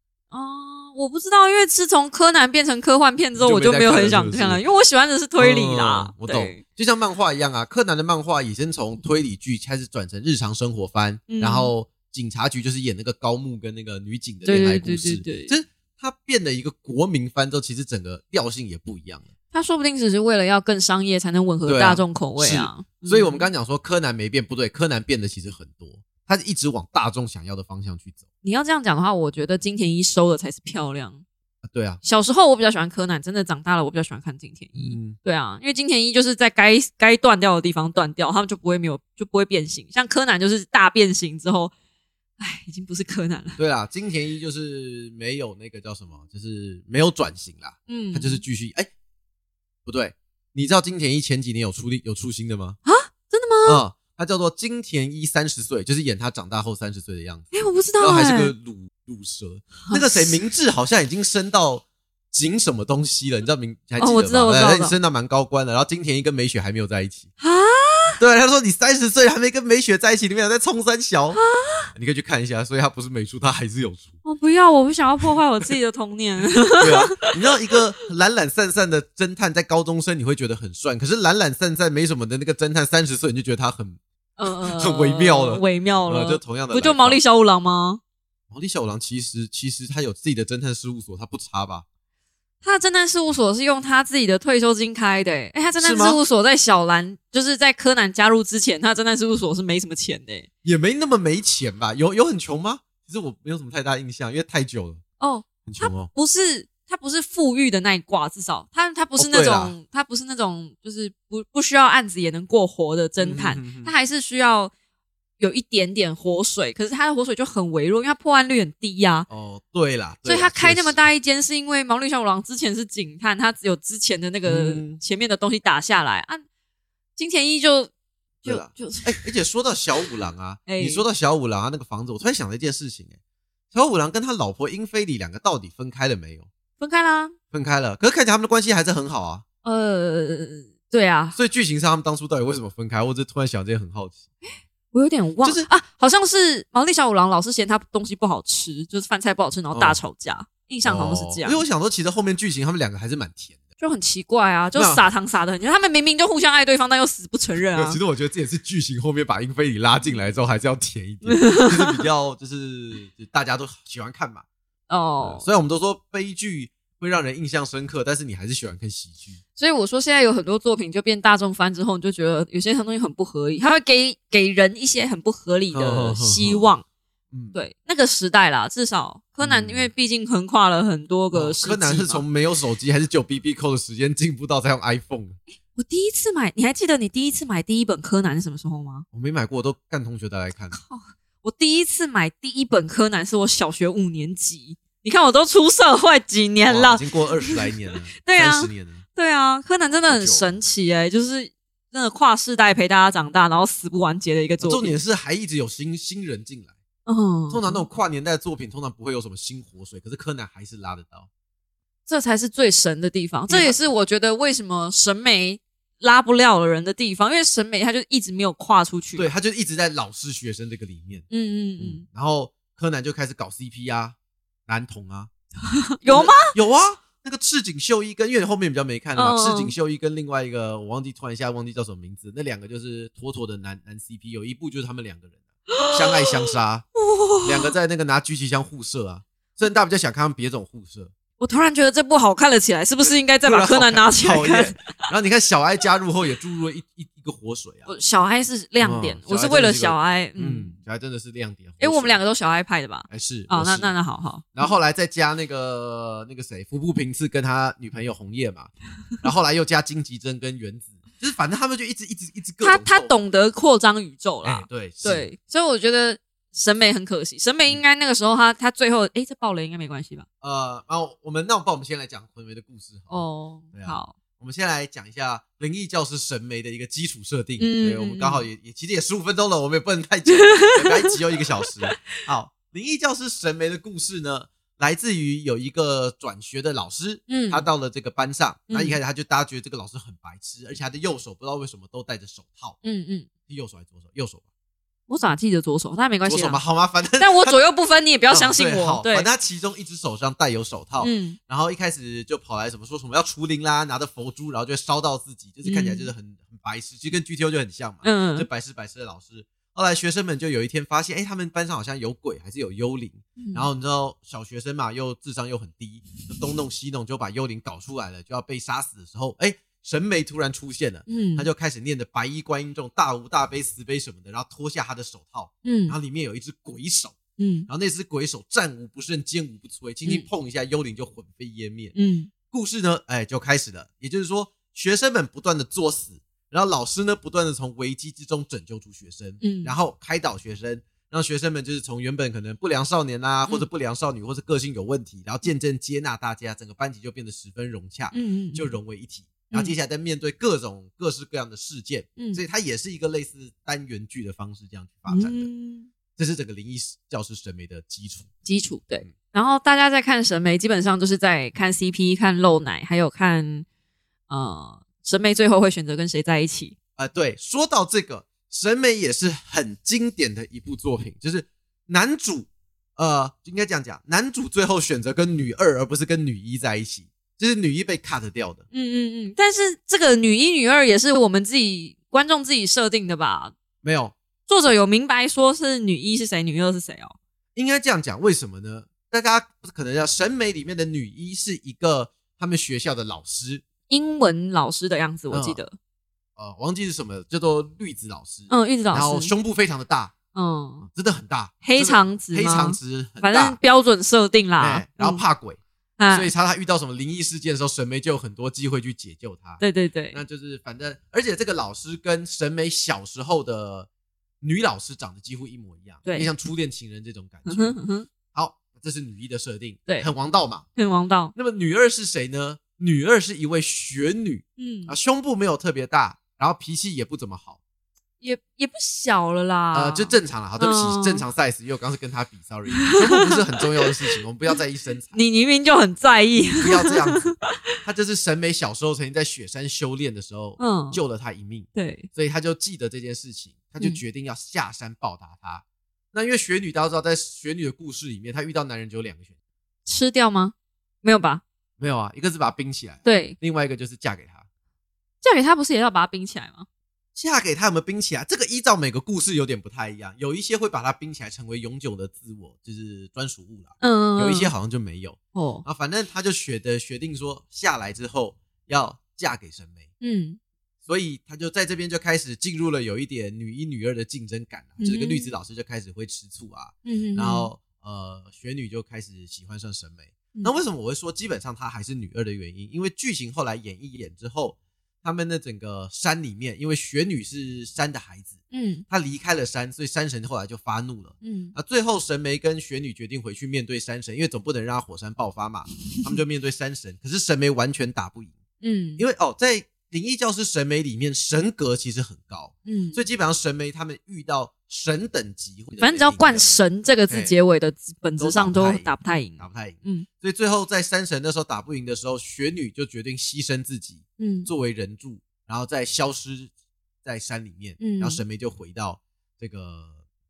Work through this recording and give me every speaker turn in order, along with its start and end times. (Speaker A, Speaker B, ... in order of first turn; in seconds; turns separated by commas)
Speaker A: 0.3-6.6, Speaker B: 3.4-4.6, Speaker B: 5.4-19.3, Speaker A: 11.3-11.7, Speaker A: 14.4-15.5, Speaker A: 19.5-23.5, Speaker B: 21.6-28.2, Speaker A: 28.4-31.2, Speaker B: 31.6-32.0, Speaker A: 32.0-41.7, Speaker B: 34.8-35.1, Speaker A: 42.4-43.6, Speaker B: 43.6-48.9, Speaker A: 47.9-48.4, Speaker B: 49.9-52.8, Speaker A: 52.8-53.8, Speaker B: 53.6-67.3, Speaker A: 57.5-58.5, Speaker A: 59.9-60.3, Speaker A: 64.0-65.0, Speaker A: 67.4-68.2, Speaker B: 68.2-71.4, Speaker A: 71.4-71.8, Speaker B: 71.9-74.1, Speaker A: 74.2-77.3, Speaker B: 76.8-84.0, Speaker A: 84.4-88.0, Speaker B: 84.6-87.2, Speaker B: 88.5-91.8, Speaker A: 92.6-100.5, Speaker B: 95.8-96.2, Speaker B: 100.6-105.0, Speaker A: 105.2-114.7, Speaker B: 105.7-106.1, Speaker B: 109.2-109.7, Speaker B: 113.2-113.9, Speaker A: 115.4-119.3, Speaker B: 119.3-121.0, Speaker A: 120.2-126.4, Speaker B: 124.4-125.0, Speaker A: 127.2-127.9, Speaker A: 128.4-129.2, Speaker B: 128.4-133.2, Speaker A: 130.7-131.0, Speaker B: 133.7-136.5, Speaker A: 136.8-137.3, Speaker B: 137.5-139.4, Speaker A: 139.6-141.3, Speaker B: 141.3-144.2, Speaker A: 144.9-151.6, Speaker B: 149.7-150.0, Speaker B: 150.8-153.6, Speaker A: 153.8-158.0, Speaker B: 154.7-155.0, Speaker B: 157.7-164.4, Speaker A: 161.2-161.9, Speaker A: 164.9-165.4, Speaker B: 165.2-169.4, Speaker A: 169.6-176.8, Speaker B: 175.7-176.7, Speaker B: 177.3-177.6, Speaker A: 177.5-182.2, Speaker B: 179.4-179.9, Speaker B: 181.3-185.4, Speaker A: 185.8-189.0, Speaker B: 189.1-190.8, Speaker A: 190.7-204.9, Speaker B: 196.7-199.0, Speaker B: 200.1-200.5, Speaker B: 204.6-206.7, Speaker A: 207.1-207.8, Speaker B: 207.5-211.3, Speaker A: 212.1-219.3, Speaker B: 213.5-213.8, Speaker B: 219.2-221.3, Speaker A: 221.3-222.0, Speaker B: 221.8-224.2, Speaker B: 224.7-225.3, Speaker A: 225.7-226.5, Speaker B: 226.0-236.8, Speaker A: 229.2-229.7, Speaker A: 235.7-237.7, Speaker B: 237.4-241.1, Speaker A: 241.4-244.8, Speaker B: 243.0-247.9, Speaker A: 247.9-250.7, Speaker B: 248.8-252.2, Speaker A: 251.8-254.7, Speaker B: 253.1-253.9, Speaker B: 254.5-263.1, Speaker A: 262.6-270.2, Speaker B: 264.4-265.3, Speaker B: 270.4-292.8, Speaker A: 273.1-274.1, Speaker A: 277.6-278.4, Speaker A: 280.3-281.1, Speaker A: 287.3-287.6, Speaker A: 288.7-289.0, Speaker A: 292.8-293.3, Speaker B: 293.5-294.4, Speaker A: 295.1-296.6, Speaker B: 296.2-297.6, Speaker A: 297.2-299.3, Speaker B: 298.3-331.9, Speaker A: 301.0-301.4, Speaker A: 305.6-306.1, Speaker A: 308.0-308.5, Speaker A: 313.4-313.7, Speaker A: 321.1-321.4, Speaker A: 325.6-325.9, Speaker A: 327.4-327.7, Speaker A: 331.9-332.3, Speaker B: 332.5-355.5, Speaker A: 339.4-339.7, Speaker A: 348.1-348.7, Speaker A: 355.1-355.9, Speaker B: 356.1-358.3, Speaker A: 358.4-363.6, Speaker A: 364.3-366.7, Speaker B: 366.9-378.6, Speaker A: 378.7-383.5, Speaker B: 383.8-384.1, Speaker A: 384.5-387.1, Speaker B: 387.5-393.6, Speaker A: 393.9-395.8, Speaker B: 395.3-395.6, Speaker B: 396.4-400.1, Speaker A: 398.5-399.3, Speaker A: 400.3-400.9, Speaker B: 400.8-403.6, Speaker A: 401.6-405.2, Speaker B: 404.6-405.6, Speaker A: 406.0-406.3, Speaker B: 406.1-413.9, Speaker A: 409.6-410.2, Speaker B: 414.4-417.8, Speaker A: 417.4-418.1, Speaker B: 418.3-420.6, Speaker A: 420.8-421.3, Speaker B: 421.3-427.6, Speaker A: 424.6-424.9, Speaker A: 428.2-431.2, Speaker B: 429.7-435.2, Speaker A: 432.8-433.6, Speaker A: 435.1-437.6, Speaker B: 436.6-449.3, Speaker A: 440.6-441.0, Speaker A: 441.7-442.1, Speaker A: 449.9-451.4, Speaker B: 451.8-454.4, Speaker A: 453.0-453.4, Speaker A: 455.2-456.6, Speaker B: 457.1-469.9, Speaker A: 463.8-464.5, Speaker A: 465.3-465.6, Speaker A: 470.0-470.4, Speaker B: 470.8-488.4, Speaker A: 474.8-475.3, Speaker A: 476.8-477.5, Speaker A: 488.5-488.8, Speaker B: 488.9-498.3, Speaker A: 491.2-491.5, Speaker A: 498.6-499.0, Speaker B: 499.0-506.5, Speaker A: 502.6-503.0, Speaker A: 505.8-510.1, Speaker B: 507.1-507.3, Speaker B: 508.2-516.5, Speaker A: 514.2-514.5, Speaker B: 517.0-519.9, Speaker A: 517.8-518.2